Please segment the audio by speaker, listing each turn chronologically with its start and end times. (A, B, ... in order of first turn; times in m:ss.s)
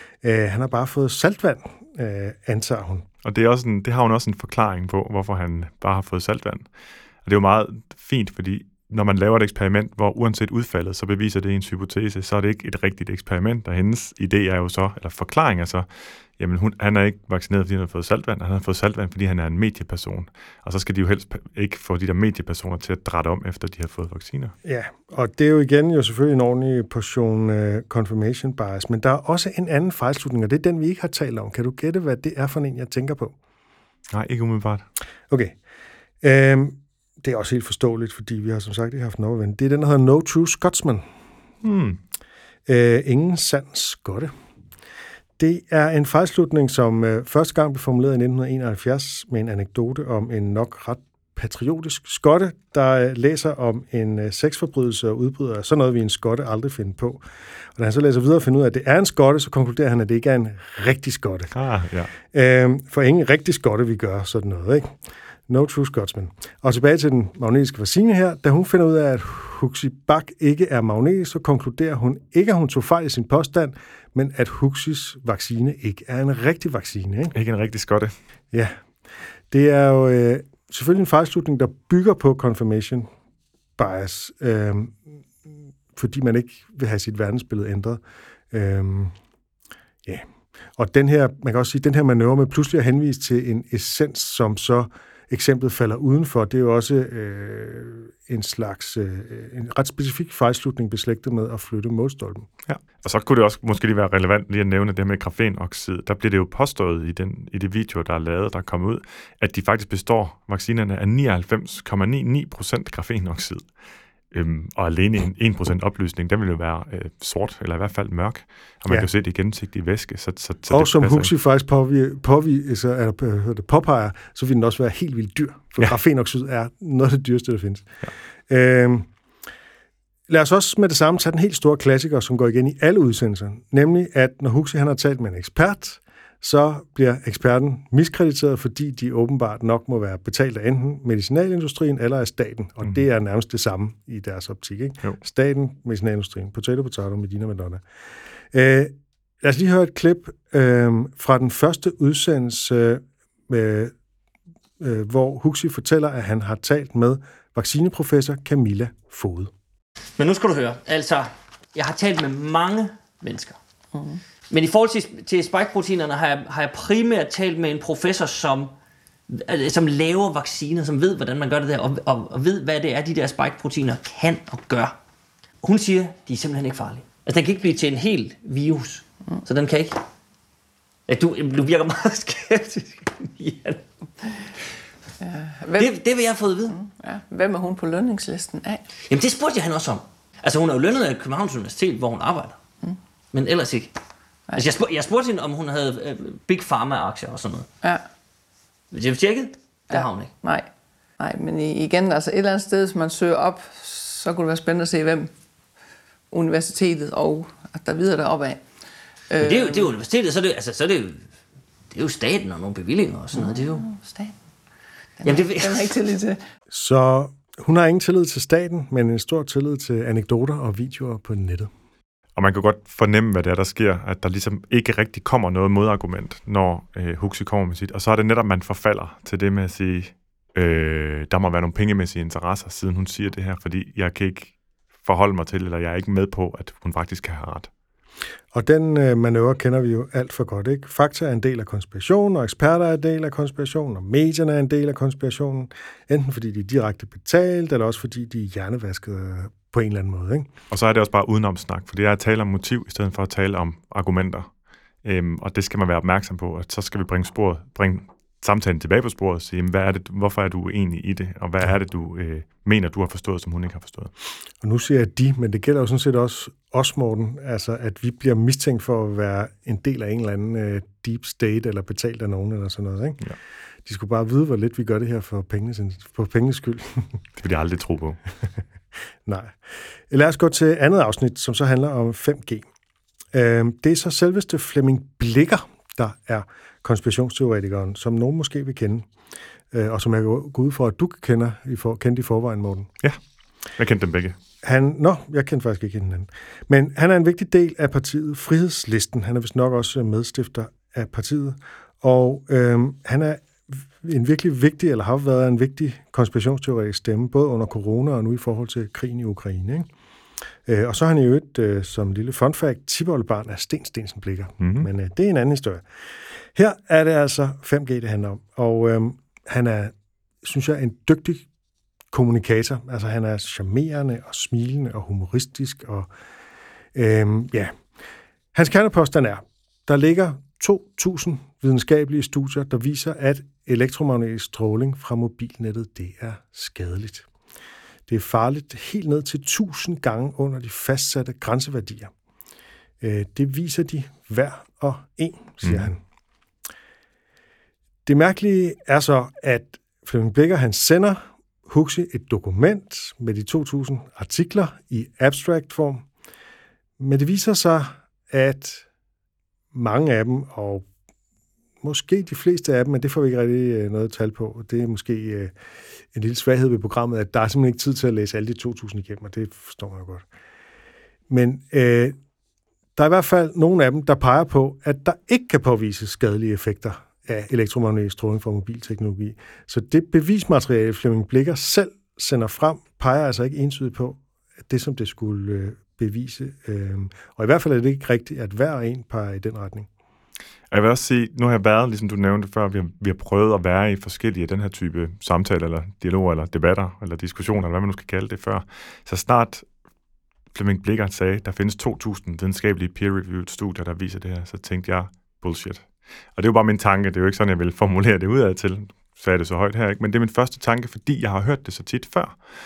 0:00.2-0:03.1 A
0:03.2-0:06.7 B
0:07.2-0:15.9 B
0:16.4-0:24.6 B
0:24.6-0:33.4 A
0:34.1-0:34.9 B
0:35.3-0:35.6 A
0:36.2-0:41.1 A
0:41.6-0:42.0 B
0:42.7-0:44.3 A
0:45.4-0:57.2 A
0:57.8-1:01.5 A
1:01.5-1:02.1 B
1:02.2-1:05.0 A
1:05.5-1:17.4 A
1:17.3-1:18.1 B
1:19.5-1:23.1 A
1:23.8-1:28.0 A
1:28.5-1:29.2 A
1:30.0-1:42.5 A
1:42.7-1:53.7 B
1:54.3-2:01.3 B
2:00.7-2:07.9 A
2:08.5-2:09.1 A
2:10.3-2:27.8 A
2:28.5-2:33.9 A
2:34.8-2:39.5 A
2:40.2-2:43.6 C
2:43.9-2:44.2 D
2:44.5-2:48.7 C
2:49.3-2:55.0 C
2:55.6-3:00.0 C
3:01.1-3:04.5 C
3:05.2-3:06.0 D
3:05.8-3:06.8 C
3:06.7-3:08.9 D
3:09.0-3:12.6 C
3:13.3-3:13.9 C
3:14.5-3:17.7 C
3:18.9-3:20.4 C
3:19.9-3:20.7 D
3:21.2-3:25.3 D
3:26.3-3:28.6 D
3:29.3-3:30.0 D
3:29.4-3:31.3 C
3:31.9-3:33.9 C
3:33.3-3:34.4 D
3:35.2-3:36.4 D
3:35.2-3:36.0 C
3:36.7-3:41.7 A
3:42.4-3:57.7 B
3:58.5-4:10.5 A
4:10.7-4:14.5 B
4:15.0-4:24.1 B
4:24.6-4:33.2 A
4:33.8-4:37.2 A
4:37.4-4:38.2 B
4:39.2-4:39.5 A
4:40.1-4:42.7 A
4:43.3-4:49.1 A
4:49.7-4:52.9 A
4:53.8-4:54.4 B
4:54.6-5:09.9 A
5:10.7-5:15.8 A
5:14.6-5:14.9 B
5:16.6-5:21.5 A
5:22.1-5:26.1 A
5:27.0-5:27.7 A
5:28.5-5:37.3 A
5:38.1-5:42.1 A
5:43.0-5:46.0 A
5:45.6-5:45.9 B
5:48.1-5:56.1 A
5:57.0-5:58.9 A
5:59.7-6:00.9 A
6:01.8-6:05.5 A
6:06.1-6:10.3 A
6:11.3-6:12.2 A
6:13.0-6:29.9 A
6:30.7-6:39.7 B
6:40.5-6:52.4 B